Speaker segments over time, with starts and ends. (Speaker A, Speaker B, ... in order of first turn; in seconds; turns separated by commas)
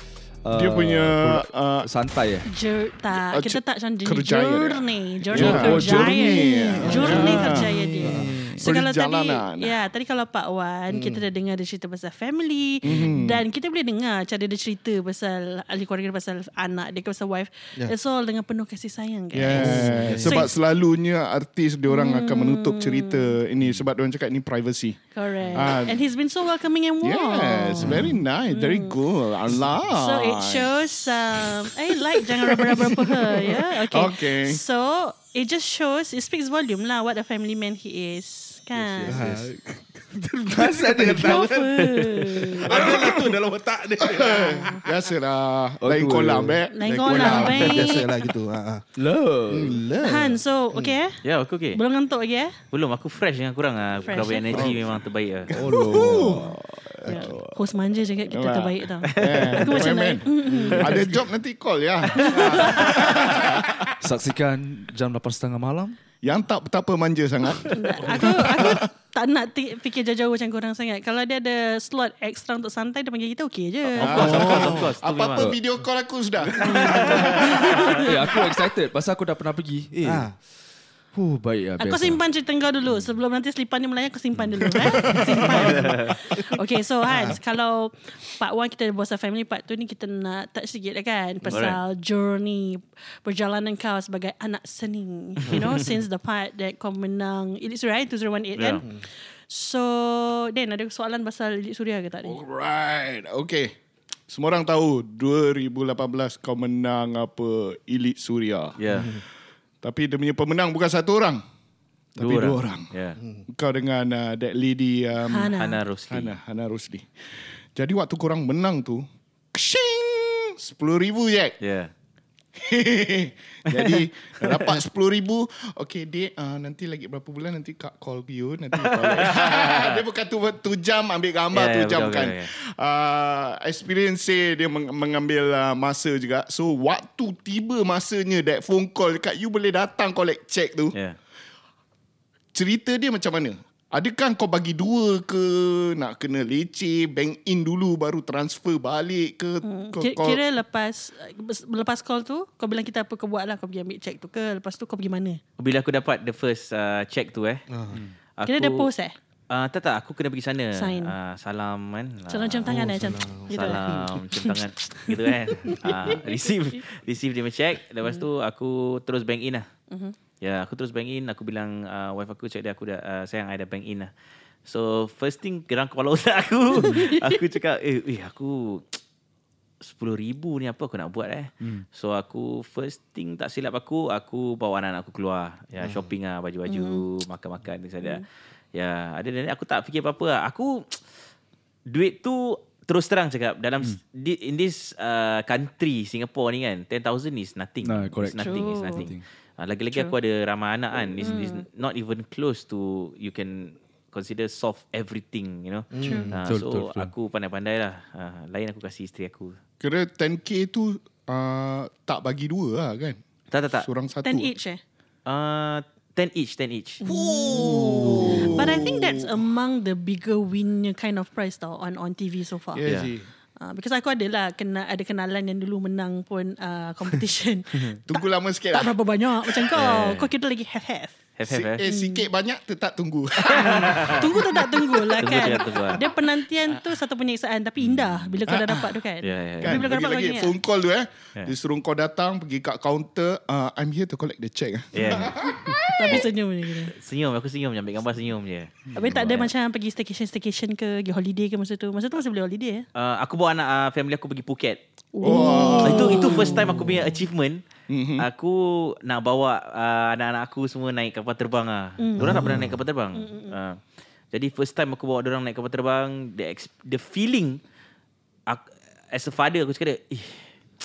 Speaker A: 0.4-2.5, Speaker B: 0.5-1.9, Speaker C: 2.5-20.6, Speaker B: 3.1-9.7, Speaker A: 5.3-8.0, Speaker D: 6.8-8.4, Speaker D: 10.9-11.2, Speaker D: 12.8-13.1, Speaker B: 12.8-13.4, Speaker B: 19.3-25.0, Speaker D: 19.4-20.5, Speaker C: 21.9-23.4, Speaker C: 25.1-29.0, Speaker D: 25.4-25.7, Speaker B: 25.5-26.0, Speaker B: 27.0-30.7, Speaker D: 27.8-28.1, Speaker C: 29.8-39.2, Speaker B: 32.1-34.6, Speaker D: 38.8-39.5, Speaker A: 39.1-39.6, Speaker D: 40.4-41.7, Speaker A: 40.5-42.2, Speaker C: 41.2-42.9, Speaker D: 42.6-44.8, Speaker B: 42.7-43.4, Speaker B: 44.0-48.1, Speaker C: 44.2-44.9, Speaker A: 45.8-46.7, Speaker C: 46.7-48.1, Speaker D: 47.0-48.9, Speaker A: 49.0-49.8, Speaker D: 49.5-50.9, Speaker C: 50.0-51.2, Speaker E: 51.2-51.8, Speaker C: 51.7-52.6, Speaker E: 52.7-55.5, Speaker C: 54.0-54.8, Speaker B: 54.5-54.9, Speaker A: 55.5-57.5, Speaker B: 55.6-57.4, Speaker D: 55.7-56.5, Speaker D: 57.0-57.3, Speaker C: 57.1-61.1, Speaker B: 58.3-63.9, Speaker E: 59.1-59.7, Speaker D: 60.5-61.2, Speaker C: 62.1-63.3, Speaker A: 64.0-66.0, Speaker B: 66.2-68.8, Speaker C: 67.7-74.4, Speaker D: 68.1-68.4, Speaker E: 74.0-75.5, Speaker B: 74.0-77.7, Speaker D: 74.2-74.9, Speaker A: 75.3-75.6, Speaker A: 76.5-80.3, Speaker E: 76.6-77.3, Speaker C: 76.9-78.3, Speaker D: 80.0-80.4, Speaker A: 81.1-82.2, Speaker C: 81.8-102.4, Speaker B: 84.8-85.9, Speaker D: 87.0-87.4, Speaker E: 91.5-91.8, Speaker E: 98.6-98.8, Speaker B: 102.2-103.7, Speaker B: 104.3-108.8, Speaker E: 108.8-109.2, Speaker D: 109.0-109.2, Speaker B: 109.8-111.4, Speaker B: 112.2-112.9, Speaker E: 112.2-113.2, Speaker D: 113.2-113.4, Speaker B: 113.5-115.6, Speaker C: 115.2-115.8, Speaker E: 115.6-116.3, Speaker B: 116.1-117.1, Speaker B: 117.8-121.6, Speaker E: 121.6-121.9, Speaker B: 122.5-140.9, Speaker E: 123.7-124.7, Speaker E: 128.8-130.0, Speaker E: 131.5-132.5, Speaker B: 142.5-150.4, Speaker C: 149.6-155.4, Speaker E: 155.6-157.6, Speaker D: 157.7-158.0, Speaker E: 158.4-158.9, Speaker C: 158.4-159.2, Speaker E: 159.5-162.9, Speaker C: 160.8-161.2, Speaker C: 162.3-166.8, Speaker D: 162.7-164.3, Speaker E: 163.5-169.7, Speaker E: 170.4-174.1, Speaker E: 174.7-179.0, Speaker C: 176.7-177.4, Speaker E: 179.8-191.0, Speaker D: 185.8-186.1, Speaker C: 186.7-187.0, Speaker E: 191.9-209.6, Speaker A: 197.8-199.2, Speaker C: 198.4-199.1, Speaker C: 201.2-201.7, Speaker D: 205.9-206.4, Speaker C: 206.0-206.3, Speaker A: 206.4-207.1, Speaker B: 209.8-213.2, Speaker E: 213.5-213.9, Speaker B: 213.8-214.5, Speaker C: 214.2-214.8, Speaker E: 215.3-217.0, Speaker C: 217.0-222.8, Speaker B: 217.1-219.3, Speaker D: 217.6-218.8, Speaker B: 222.7-223.3, Speaker C: 223.6-227.9, Speaker B: 228.0-228.9, Speaker C: 228.7-231.2, Speaker E: 229.8-230.3, Speaker E: 231.4-231.8, Speaker B: 231.5-236.1, Speaker C: 231.8-232.3, Speaker C: 233.5-240.5, Speaker E: 233.6-234.2, Speaker E: 235.2-236.0, Speaker B: 238.5-239.0, Speaker E: 239.2-239.9, Speaker B: 239.6-246.2, Speaker E: 244.9-245.5, Speaker C: 245.8-246.9, Speaker E: 246.9-249.5, Speaker C: 248.9-252.9, Speaker E: 252.9-257.7, Speaker C: 255.1-256.8, Speaker B: 255.2-256.7, Speaker B: 257.9-258.3, Speaker E: 258.2-263.8, Speaker C: 262.0-262.4, Speaker D: 262.2-262.8, Speaker C: 263.1-263.6, Speaker E: 264.3-267.6, Speaker E: 268.5-270.5